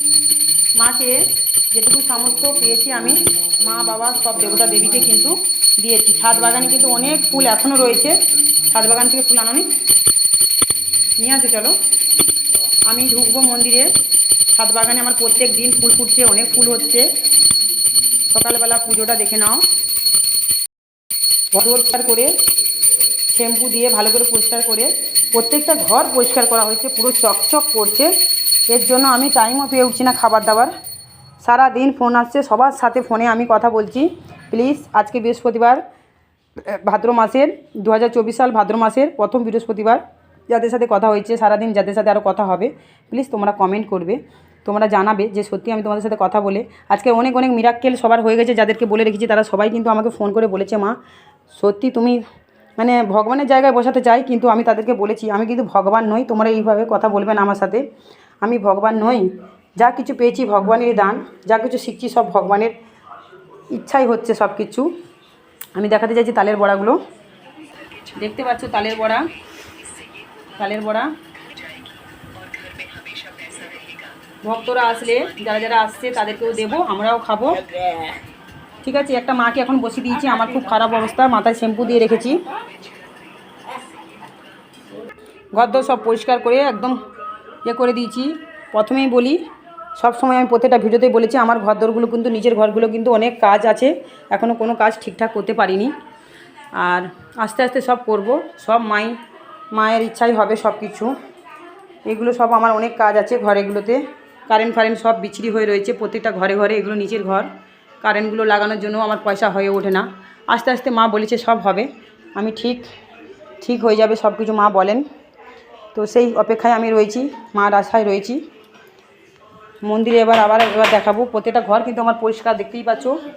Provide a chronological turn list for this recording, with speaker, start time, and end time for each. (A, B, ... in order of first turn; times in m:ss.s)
0:00.8-0:08.2 A
0:08.7-0:09.7 A
0:11.2-0:11.8 A
0:12.9-0:13.9 A
0:14.5-0:17.1 A
0:18.3-0:19.6 A
0:21.5-0:22.3 A
0:23.3-0:28.1 A
0:28.7-0:30.7 A
0:31.4-0:35.8 A
0:36.6-0:51.0 A
0:51.5-0:52.2 A
0:52.8-0:57.8 A
0:58.4-1:02.7 A
1:03.7-1:04.9 A
1:05.8-1:07.0 A
1:08.1-1:09.3 A
1:10.5-1:11.1 A
1:14.4-1:17.6 A
1:18.8-1:22.4 A
1:25.5-1:27.0 A
1:27.6-1:29.4 A
1:30.0-1:35.9 A
1:36.8-1:39.2 A
1:39.7-1:41.1 A
1:42.1-1:47.5 A
1:48.0-1:52.9 A
1:53.6-1:55.0 A
1:55.9-1:58.4 A
1:59.8-2:03.2 A